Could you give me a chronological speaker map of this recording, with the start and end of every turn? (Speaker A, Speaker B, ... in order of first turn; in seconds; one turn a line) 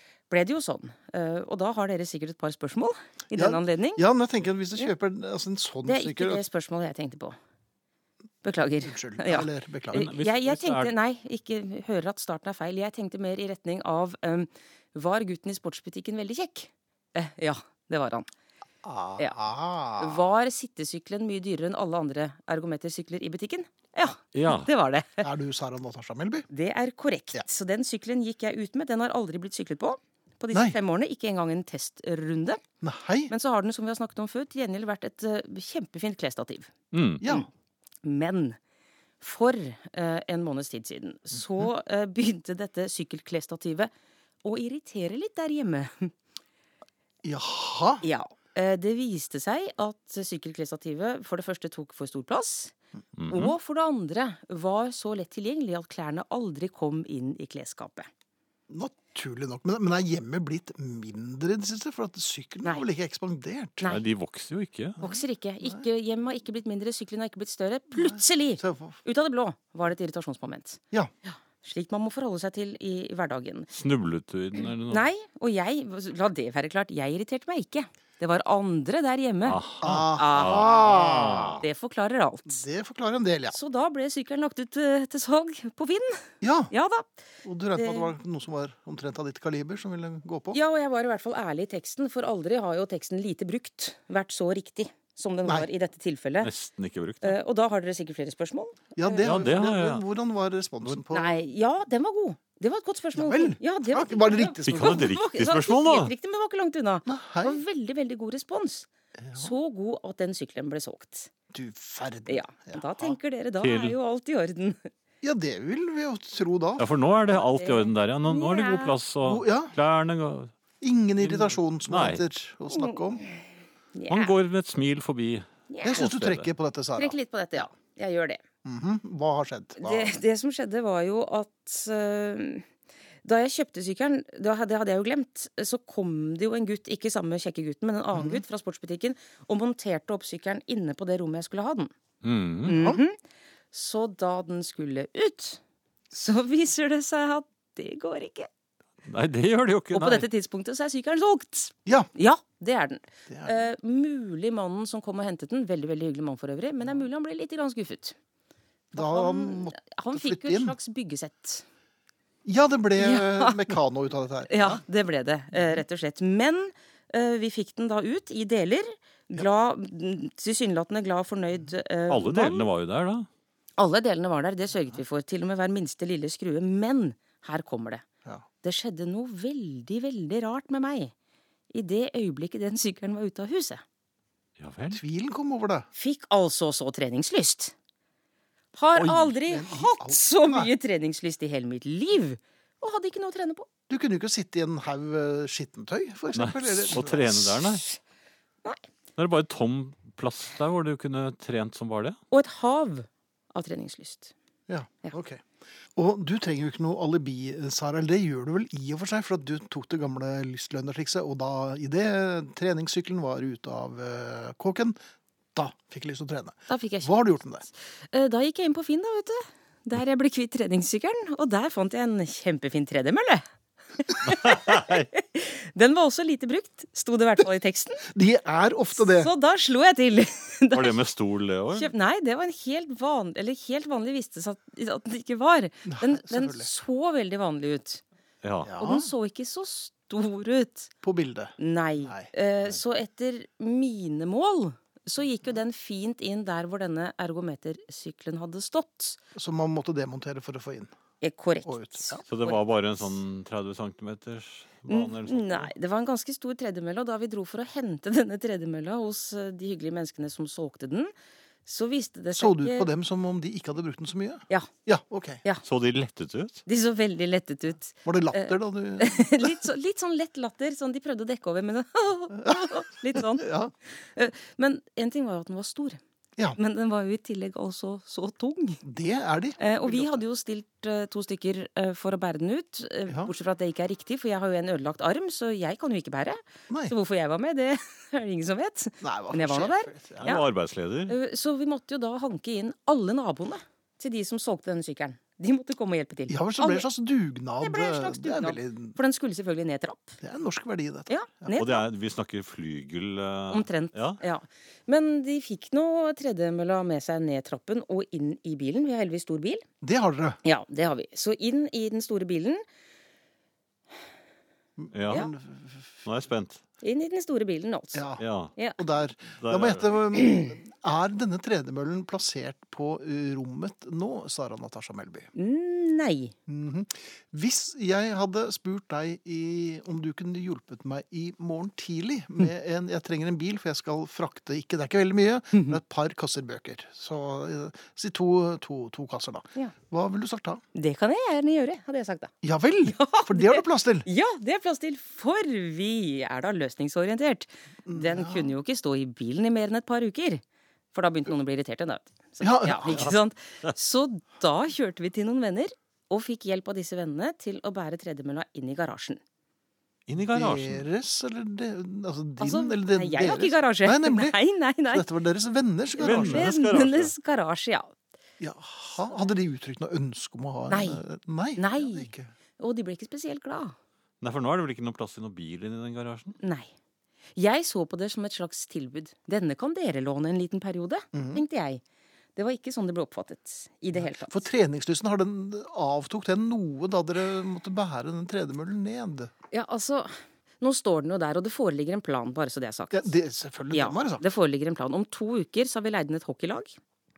Speaker A: 0.3-4.0
Speaker B: 3.3-6.4
Speaker A: 5.8-7.4
Speaker A: 8.4-18.3
Speaker B: 8.8-10.1
Speaker C: 9.9-10.9
Speaker B: 18.8-20.3
Speaker A: 20.0-25.3
Speaker C: 24.3-24.7
Speaker B: 25.2-26.5
Speaker A: 26.5-32.6
Speaker B: 32.8-33.3
Speaker A: 33.3-36.7
Speaker C: 36.9-37.2
Speaker B: 37.2-37.5
Speaker A: 38.0-38.6
Speaker A: 39.2-43.9
Speaker A: 44.4-46.1
Speaker B: 47.2-48.0
Speaker A: 48.0-52.8
Speaker C: 53.2-53.5
Speaker A: 53.3-58.1
Speaker B: 58.7-63.9
Speaker C: 63.9-65.0
Speaker B: 65.0-65.8
Speaker A: 65.0-73.7
Speaker B: 67.9-69.0
Speaker C: 73.7-75.0
Speaker A: 74.9-79.6
Speaker C: 79.5-81.6
Speaker B: 79.8-81.6
Speaker A: 80.1-81.0
Speaker A: 81.6-82.6
Speaker B: 82.5-83.6
Speaker A: 83.5-87.1
Speaker B: 86.4-86.7
Speaker B: 87.4-90.6
Speaker A: 87.8-88.1
Speaker A: 90.5-96.5
Speaker C: 96.4-97.4
Speaker A: 97.2-99.5
Speaker B: 99.0-101.3
Speaker C: 99.2-100.0
Speaker A: 101.1-111.3
Speaker B: 103.1-105.1
Speaker C: 104.7-106.1
Speaker B: 107.1-107.6
Speaker B: 109.2-109.5
Speaker B: 111.5-113.2
Speaker A: 112.3-114.9
Speaker C: 113.6-114.0
Speaker B: 115.2-116.9
Speaker C: 116.8-120.5
Speaker A: 117.6-119.0
Speaker B: 119.2-119.8
Speaker B: 120.8-123.2
Speaker C: 121.2-122.2
Speaker A: 122.7-123.4
Speaker A: 124.0-124.3
Speaker C: 124.1-126.5
Speaker A: 125.7-126.0
Speaker B: 125.8-127.2
Speaker A: 127.0-128.4
Speaker B: 128.7-130.1
Speaker A: 129.8-132.7
Speaker A: 133.2-141.9
Speaker B: 138.1-138.4
Speaker C: 142.2-142.8
Speaker A: 142.7-143.2
Speaker B: 142.7-143.0
Speaker A: 143.7-145.6
Speaker A: 146.1-148.5
Speaker C: 149.1-150.3
Speaker A: 149.9-158.2
Speaker B: 153.3-153.7
Speaker B: 158.9-160.8
Speaker A: 158.9-161.7
Speaker B: 162.4-164.8
Speaker A: 163.0-163.7
Speaker A: 164.5-172.7
Speaker B: 165.5-165.8
Speaker C: 172.1-173.3
Speaker A: 173.8-178.0
Speaker A: 178.6-181.1
Speaker A: 181.7-183.8
Speaker C: 184.6-185.0
Speaker B: 184.9-185.9
Speaker A: 185.9-187.7
Speaker A: 188.7-193.7
Speaker B: 189.0-190.7
Speaker B: 193.9-197.7
Speaker C: 196.3-197.8
Speaker C: 199.2-202.2
Speaker A: 202.3-204.3
Speaker B: 204.7-205.4
Speaker B: 206.0-215.0
Speaker B: 215.6-217.7
Speaker A: 216.7-217.2
Speaker A: 218.1-223.4
Speaker A: 224.0-228.1
Speaker C: 224.3-225.1
Speaker B: 228.1-229.3
Speaker A: 228.9-231.0
Speaker C: 230.7-231.9
Speaker A: 231.7-238.0
Speaker B: 235.8-236.7
Speaker C: 238.4-238.7
Speaker B: 238.6-239.1
Speaker A: 238.8-240.9
Speaker B: 241.0-242.3
Speaker A: 241.6-249.2
Speaker B: 249.3-250.9
Speaker A: 251.2-252.6
Speaker B: 251.7-252.3
Speaker C: 252.3-255.7
Speaker A: 254.9-261.1
Speaker A: 261.6-262.9
Speaker B: 262.3-265.4
Speaker C: 265.6-266.6
Speaker A: 266.7-276.0
Speaker B: 268.1-269.6
Speaker B: 272.4-273.7
Speaker A: 276.6-278.8
Speaker B: 278.8-280.2
Speaker A: 279.6-290.5
Speaker B: 286.7-286.9
Speaker B: 289.0-290.4
Speaker C: 290.2-291.1
Speaker A: 291.1-296.9
Speaker B: 296.3-299.0
Speaker A: 297.6-300.2
Speaker B: 300.2-301.6
Speaker A: 301.1-301.8
Speaker C: 301.6-304.2
Speaker A: 303.5-309.6
Speaker B: 309.8-310.4
Speaker A: 310.4-312.6
Speaker B: 314.8-316.0
Speaker C: 314.9-315.3
Speaker C: 316.1-316.6
Speaker A: 316.8-318.8
Speaker B: 317.9-318.2
Speaker C: 318.2-318.5
Speaker B: 318.8-325.3
Speaker C: 319.3-320.0
Speaker A: 325.4-326.3
Speaker B: 326.5-340.6
Speaker A: 340.8-342.3
Speaker B: 342.4-344.1
Speaker A: 342.9-350.4
Speaker B: 347.9-348.5
Speaker A: 350.9-359.2
Speaker B: 352.4-353.1
Speaker C: 360.1-360.9
Speaker B: 360.2-364.4
Speaker A: 362.4-365.1
Speaker B: 364.9-366.5
Speaker C: 366.0-367.1
Speaker A: 366.0-367.9
Speaker B: 368.4-372.3
Speaker A: 370.7-371.0
Speaker A: 371.6-373.8
Speaker C: 374.2-376.4
Speaker A: 376.4-376.7
Speaker A: 377.4-381.8
Speaker B: 381.1-381.4
Speaker A: 382.4-384.4
Speaker B: 383.9-389.3
Speaker A: 389.5-393.1
Speaker B: 392.9-394.2
Speaker A: 393.7-396.8